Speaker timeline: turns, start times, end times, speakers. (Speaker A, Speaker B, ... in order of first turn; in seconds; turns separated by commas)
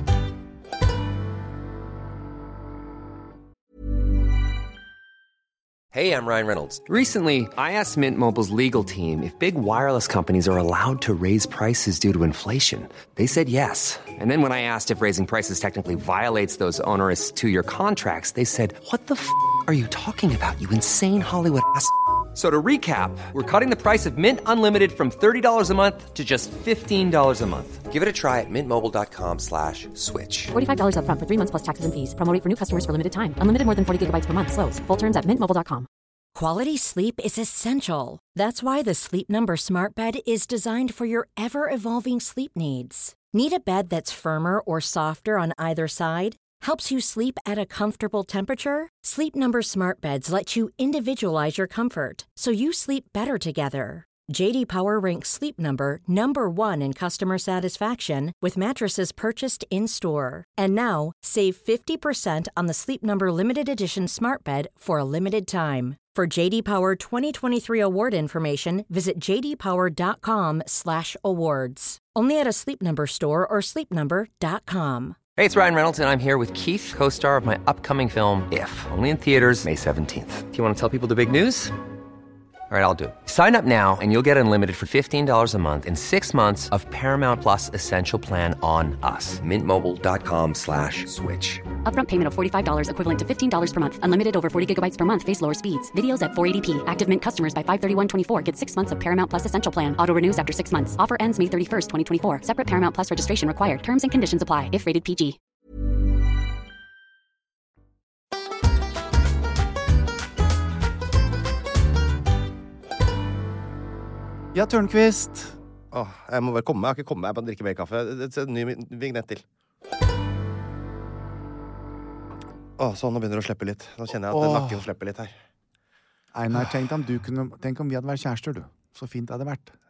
Speaker A: 5.9-30.5, Speaker B: 30.5-35.9, Speaker C: 36.3-75.2, Speaker A: 75.4-81.8, Speaker A: 82.7-91.7, Speaker B: 91.8-105.4, Speaker D: 114.5-115.6, Speaker E: 115.9-119.4, Speaker E: 122.8-125.3, Speaker D: 124.3-124.8, Speaker D: 126.3-129.7